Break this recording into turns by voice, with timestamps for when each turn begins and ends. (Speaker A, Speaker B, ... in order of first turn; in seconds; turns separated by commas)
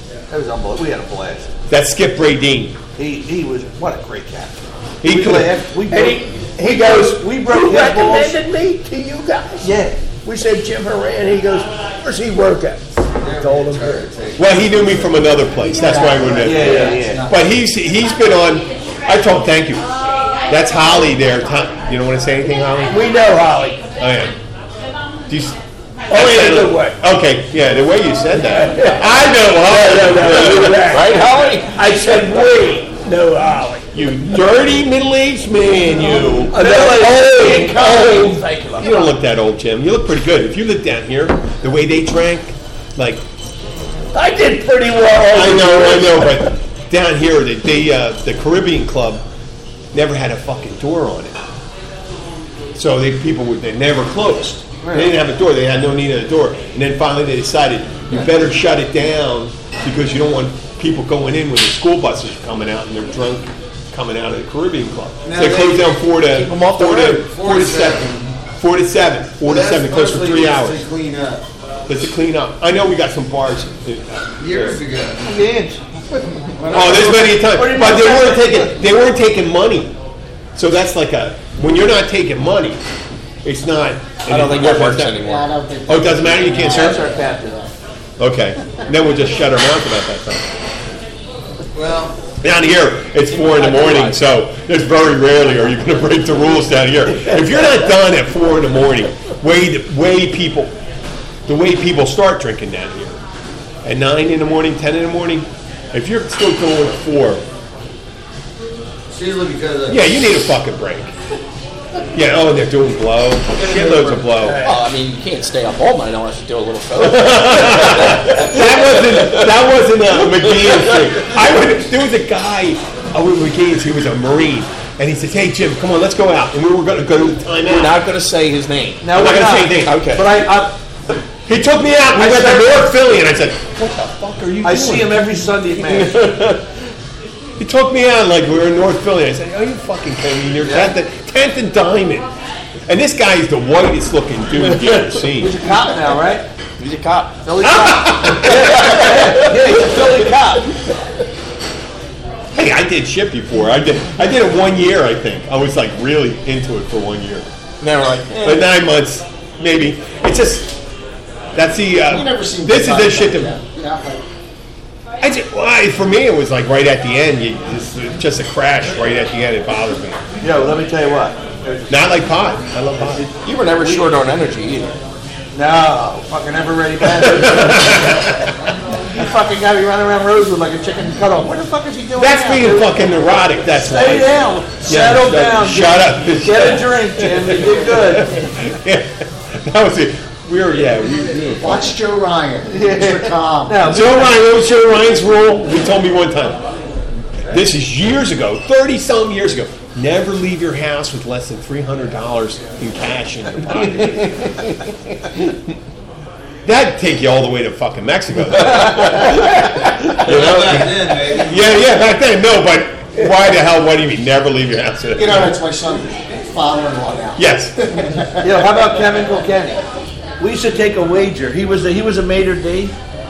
Speaker A: 0.3-1.5, Speaker B: 1.7-2.8, Speaker A: 3.0-8.3, Speaker B: 5.0-5.6, Speaker C: 5.8-12.9, Speaker A: 9.6-10.1, Speaker D: 13.2-17.3, Speaker C: 13.4-14.0, Speaker B: 14.4-19.9, Speaker E: 15.8-17.4, Speaker A: 16.4-17.2, Speaker C: 16.7-16.9, Speaker B: 20.4-23.0, Speaker C: 22.9-23.8, Speaker B: 24.0-24.3, Speaker B: 25.3-25.6, Speaker C: 26.1-27.0, Speaker B: 26.1-30.9, Speaker C: 28.4-33.9, Speaker F: 30.8-31.7, Speaker B: 33.9-36.6, Speaker C: 36.5-38.4, Speaker A: 36.5-38.2, Speaker F: 36.7-38.9, Speaker B: 38.8-43.2, Speaker C: 44.1-46.5, Speaker B: 45.3-49.2, Speaker B: 49.9-51.4, Speaker B: 52.7-70.8, Speaker A: 54.8-55.1, Speaker D: 65.2-66.0, Speaker F: 66.3-67.2, Speaker D: 67.3-68.3, Speaker D: 69.4-71.4, Speaker B: 71.9-74.8, Speaker D: 74.4-75.3, Speaker A: 75.2-75.8, Speaker E: 76.4-77.3, Speaker A: 76.7-78.7, Speaker B: 76.7-79.9, Speaker B: 80.5-82.8, Speaker B: 83.4-85.2, Speaker F: 84.3-85.5, Speaker E: 85.2-87.7, Speaker B: 85.9-87.0, Speaker A: 86.6-87.6, Speaker B: 88.2-90.5, Speaker D: 91.7-92.2, Speaker B: 92.4-100.7, Speaker F: 93.3-94.2, Speaker B: 101.5-103.2, Speaker B: 103.8-107.4, Speaker D: 109.1-110.2, Speaker B: 109.9-111.1, Speaker B: 112.1-114.6, Speaker D: 113.6-114.3, Speaker A: 114.4-114.7, Speaker F: 114.6-119.5, Speaker B: 116.9-128.0, Speaker F: 120.5-121.0, Speaker F: 127.7-129.2, Speaker A: 129.0-130.7, Speaker B: 129.1-130.2, Speaker F: 129.8-130.3, Speaker B: 131.4-135.2, Speaker A: 132.1-132.9, Speaker A: 134.6-136.2, Speaker B: 137.6-142.3, Speaker A: 140.6-140.9, Speaker B: 142.9-145.6, Speaker C: 144.7-144.9, Speaker A: 145.4-146.4, Speaker F: 146.8-147.9, Speaker A: 147.5-150.6, Speaker B: 147.6-148.8, Speaker B: 152.5-157.5, Speaker F: 157.8-158.6, Speaker B: 158.4-160.8, Speaker B: 161.5-163.6, Speaker E: 162.1-164.2, Speaker B: 165.2-170.2, Speaker A: 170.4-171.9, Speaker B: 171.9-173.2, Speaker A: 173.1-174.2, Speaker F: 173.4-174.9, Speaker A: 175.5-178.2, Speaker B: 177.1-178.5, Speaker A: 179.1-183.1, Speaker B: 182.2-191.9, Speaker A: 183.7-188.4, Speaker E: 191.6-193.9, Speaker A: 192.7-194.3, Speaker B: 193.8-196.6, Speaker B: 197.5-204.5, Speaker B: 206.6-215.6, Speaker D: 210.1-211.7, Speaker E: 215.2-218.6, Speaker B: 217.3-217.8, Speaker A: 218.4-219.8, Speaker A: 220.4-222.9